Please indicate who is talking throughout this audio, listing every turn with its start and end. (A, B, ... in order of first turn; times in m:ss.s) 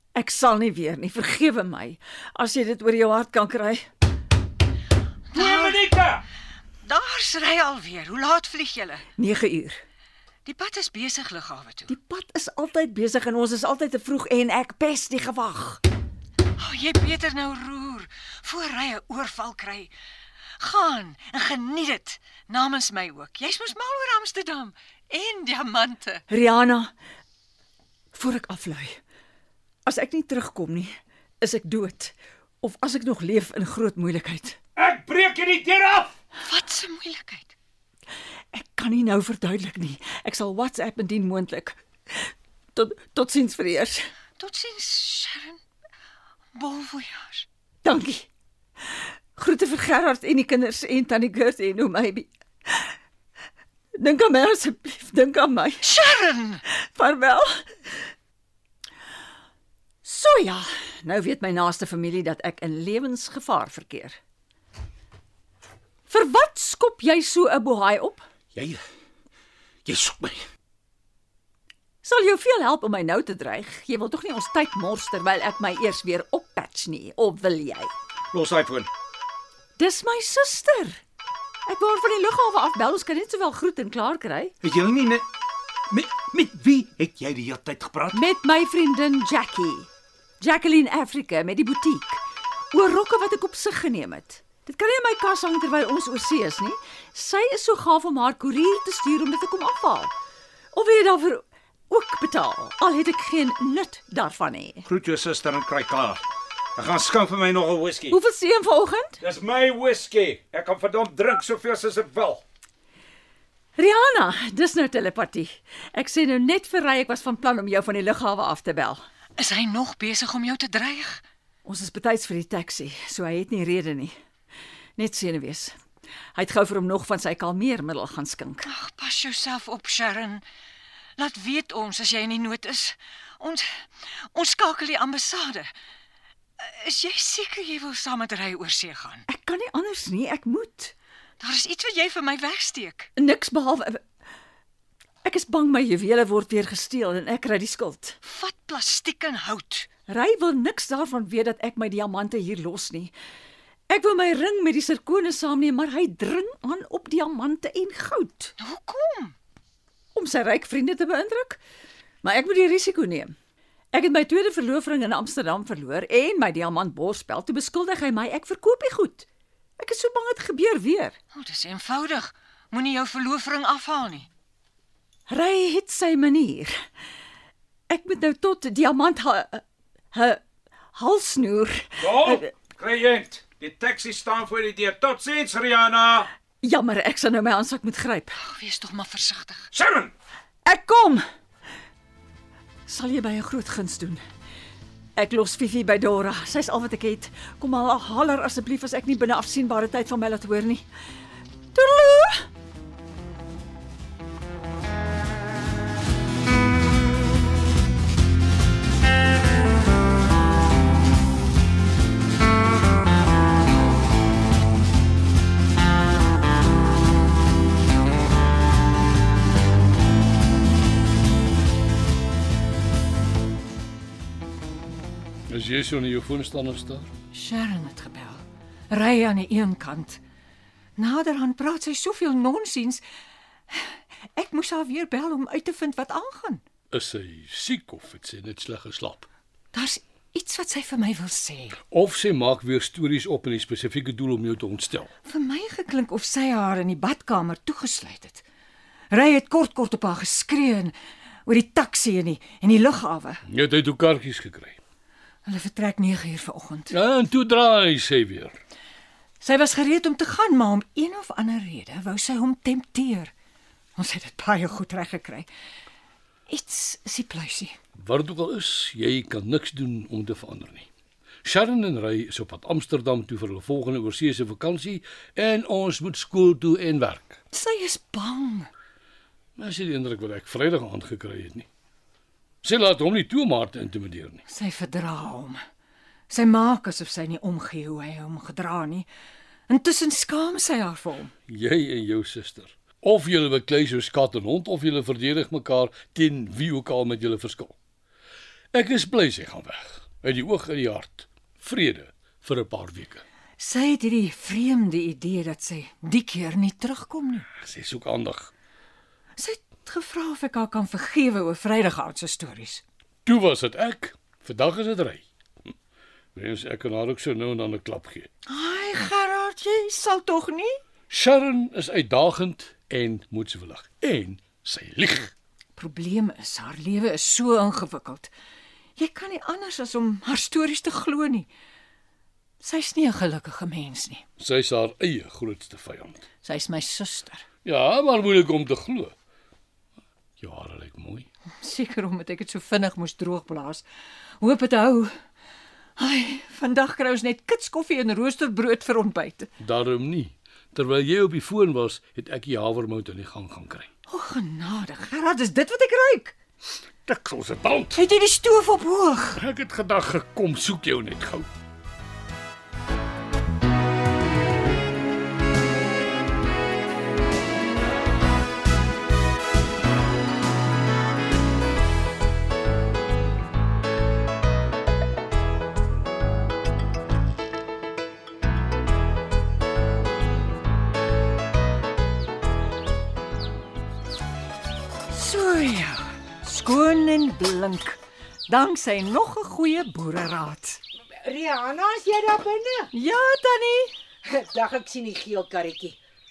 0:00.2-0:03.8 A
0:05.3-0:05.9 B
0:05.3-0:06.2 C
0:06.8-0:09.1 B
0:09.2-0:09.8 A
0:10.5-0:11.9 B
0:11.9-0:15.8 A
0:16.6-0:19.9 B
0:20.6-0:26.2 B
0:26.3-0:26.9 A
0:28.1-0:29.0 A
0:29.9-0:34.6 A
0:34.8-0:36.1 C
0:36.4-0:37.5 B
0:38.5-0:44.0 A
0:44.4-0:45.6 B
0:46.6-0:47.5 B
0:47.8-0:48.3 A
0:49.4-0:52.9 A
0:54.0-0:55.8 A
0:55.8-0:56.6 B
0:56.7-0:57.9 A
1:00.0-1:04.2 A
1:06.1-1:08.2 A
1:08.6-1:08.8 C
1:09.9-1:10.4 C
1:12.0-1:17.9 A
1:18.3-1:18.9 C
1:19.8-1:21.0 A
1:21.7-1:24.5 A
1:24.6-1:25.2 C
1:25.9-1:28.2 C
1:28.1-1:29.9 A
1:30.4-1:40.1 A
1:40.7-1:44.9 A
1:44.9-1:46.2 C
1:46.8-1:48.2 C
1:48.1-1:49.2 A
1:49.2-1:52.4 C
1:53.8-1:59.0 A
1:59.4-2:01.2 B
2:01.6-2:04.2 A
2:05.0-2:05.8 A
2:06.4-2:08.7 A
2:08.6-2:10.4 B
2:11.2-2:13.7 B
2:14.3-2:15.7 B
2:16.6-2:19.2 B
2:19.3-2:20.9 A
2:21.4-2:23.1 B
2:23.2-2:24.0 A
2:25.2-2:28.2 A
2:28.2-2:29.9 B
2:30.1-2:33.1 A
2:33.9-2:38.5 A
2:38.6-2:39.4 B
2:40.1-2:41.6 A
2:42.2-2:43.4 A
2:43.9-2:49.2 A
2:49.8-2:51.2 A
2:51.3-2:54.3 B
2:55.3-2:56.8 A
2:57.9-3:00.4 A
3:00.9-3:02.5 A
3:02.0-3:06.3 C
3:06.6-3:08.4 A
3:08.4-3:09.7 B
3:09.7-3:10.1 C
3:10.6-3:11.2 A
3:12.9-3:14.2 A
3:15.2-3:20.8 A
3:21.7-3:22.5 A
3:45.5-3:47.1 D
3:47.3-3:50.2 B
3:51.0-3:53.0 B
3:53.7-3:56.6 B
3:56.9-3:59.3 D
3:59.7-4:01.8 B
4:01.9-4:05.1 D
4:05.2-4:08.4 B
4:09.1-4:10.9 B
4:11.5-4:13.4 B
4:13.5-4:14.8 D
4:15.5-4:16.9 B
4:16.9-4:18.5 D
4:19.4-4:23.3 B
4:24.0-4:25.5 B
4:26.5-4:27.8 B
4:28.0-4:30.9 D
4:31.4-4:37.4 D
4:37.5-4:38.7 B
4:39.6-4:41.7 D
4:42.6-4:44.4 D
4:44.5-4:45.6 B
4:46.3-4:49.1 B
4:49.7-4:51.3 B
4:51.5-4:57.8 D
4:58.7-5:03.2 D
5:03.6-5:07.5 B
5:07.5-5:08.5 D
5:09.4-5:12.8 B
5:13.2-5:15.2 D
5:16.4-5:18.3 D
5:18.5-5:20.8 B
5:21.1-5:25.3 D
5:25.8-5:28.3 B
5:29.0-5:31.5 B
5:32.6-5:34.2 B
5:34.4-5:36.2 D
5:36.4-5:37.4 B
5:37.6-5:39.1 D
5:40.4-5:41.3 D
5:41.6-5:43.8 B
5:44.4-5:45.1 B
5:46.0-5:49.5 B
5:49.6-5:53.9 D
5:54.1-5:56.4 B
5:57.0-5:58.0 D
5:57.9-5:59.4 B
5:59.4-6:01.5 D
6:25.1-6:30.8 B
6:31.1-6:32.9 E
6:32.9-6:33.9 B
6:34.2-6:36.0 E